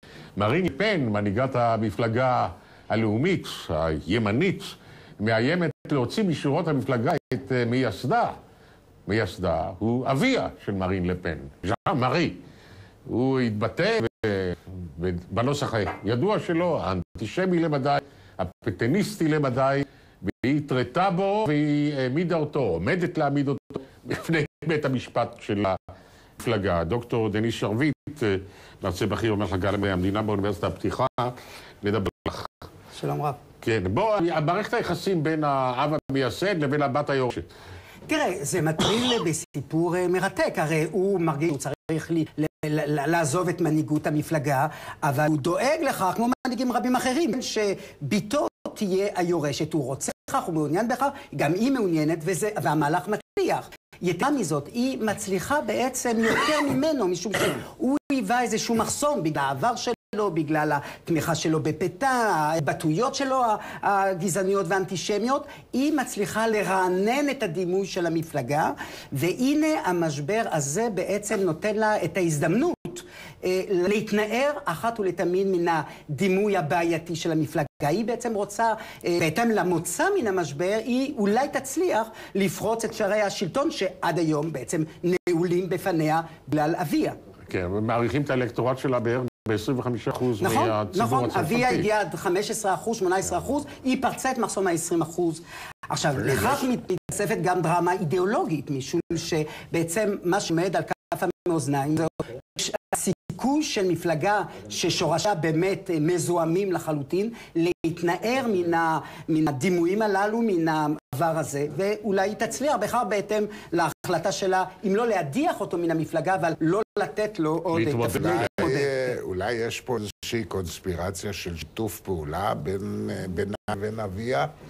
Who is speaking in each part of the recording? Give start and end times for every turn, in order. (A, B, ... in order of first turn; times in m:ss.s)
0:00.4-0:08.4 A
0:09.0-0:12.4 A
0:13.1-0:25.8 A
0:26.4-0:32.5 A
0:32.9-0:33.4 B
0:33.6-0:37.5 A
0:38.1-1:27.2 B
1:27.5-1:31.8 A
1:30.4-1:58.9 B
1:57.7-1:58.8 A
1:58.1-2:04.5 C